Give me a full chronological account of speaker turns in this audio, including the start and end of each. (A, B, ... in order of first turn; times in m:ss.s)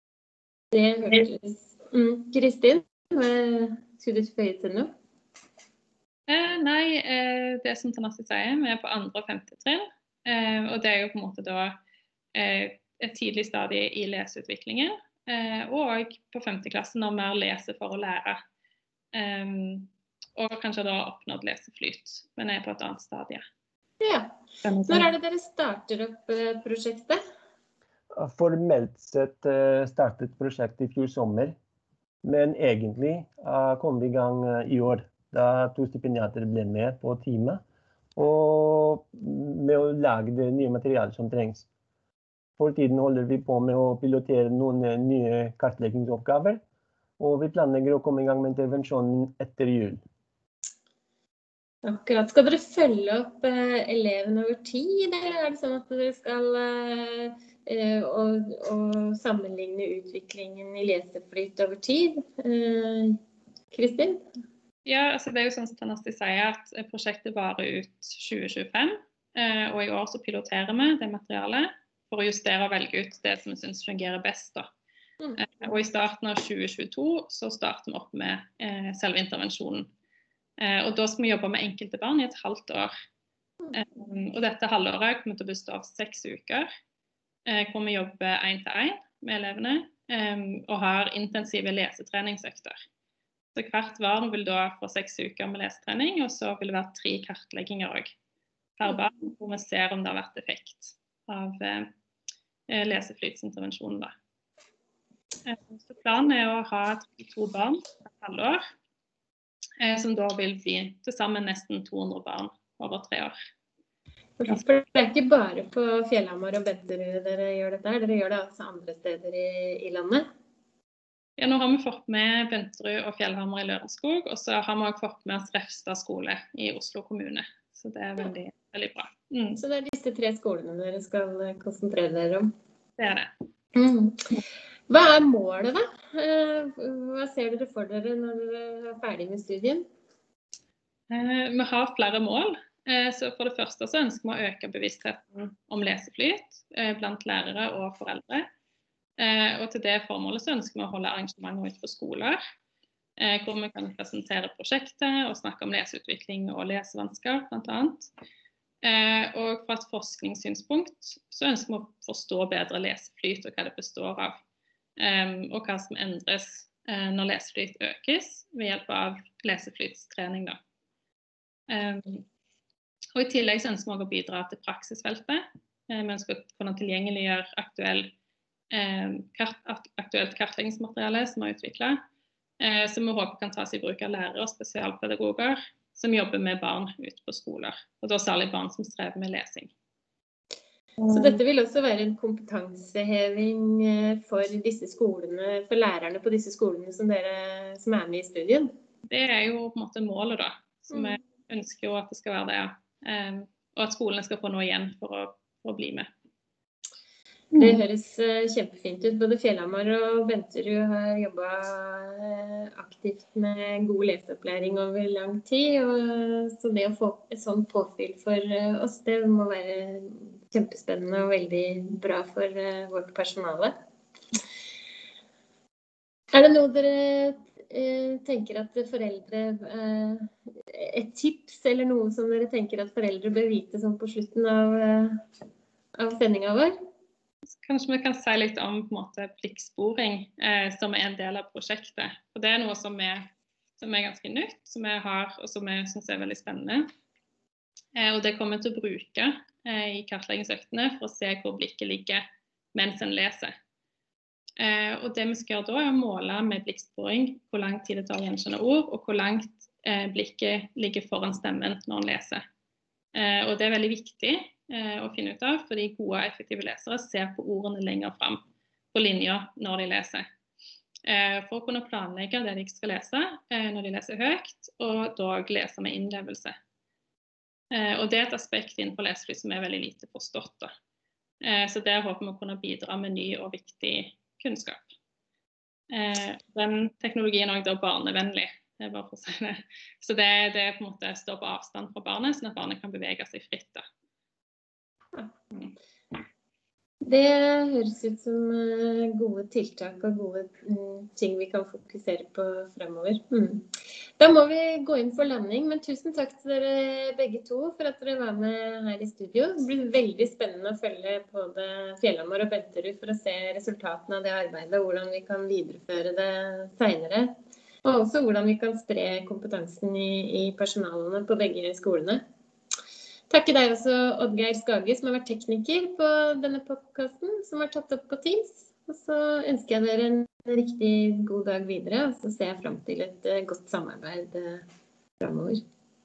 0:00.7-0:04.9 A
0:06.3-0:11.8 B
0:12.3-0:18.4 B
0:19.1-0:23.4 B
0:24.0-0:24.3 A
0:24.6-0:25.1 B
0:24.9-0:27.2 A
0:28.1-0:31.5 C
0:32.2-0:37.6 C
0:38.2-0:41.6 C
0:42.6-0:46.6 C
0:47.2-0:50.0 C
0:51.8-1:03.2 A
1:03.7-1:04.2 A
1:04.8-1:14.7 B
1:15.4-1:19.9 B
1:20.6-1:22.9 B
1:23.7-1:26.6 B
1:27.5-1:32.8 B
1:33.5-1:38.1 B
1:38.8-1:41.9 B
1:42.7-1:44.1 B
1:45.4-1:48.6 B
1:49.8-1:53.4 B
1:54.4-2:00.2 A
2:01.4-2:09.6 B
2:09.6-2:12.4 A
2:13.0-2:13.3 B
2:13.7-2:14.3 A
2:14.9-2:19.8 A
2:21.1-2:28.5 B
2:29.2-2:32.4 B
2:33.2-2:38.1 B
2:38.8-2:44.4 B
2:45.0-2:50.6 B
2:51.7-2:52.2 B
2:53.1-2:58.1 B
2:58.7-3:02.0 B
3:02.6-3:09.7 B
3:11.0-3:18.7 A
3:19.1-3:26.1 B
3:27.5-3:43.7 A
3:46.3-3:55.1 A
3:56.0-3:56.7 A
3:57.5-4:03.2 B
4:03.8-4:06.8 B
4:08.0-4:12.2 B
4:12.7-4:13.5 B
4:14.6-4:22.4 B
4:23.1-4:28.4 B
4:28.9-4:30.2 B
4:31.0-4:36.5 B
4:37.7-4:40.7 B
4:41.4-4:44.9 B
4:45.9-4:53.8 B
4:57.0-5:17.3 A
5:17.8-5:22.2 A
5:23.3-5:34.6 A
5:35.2-5:35.6 A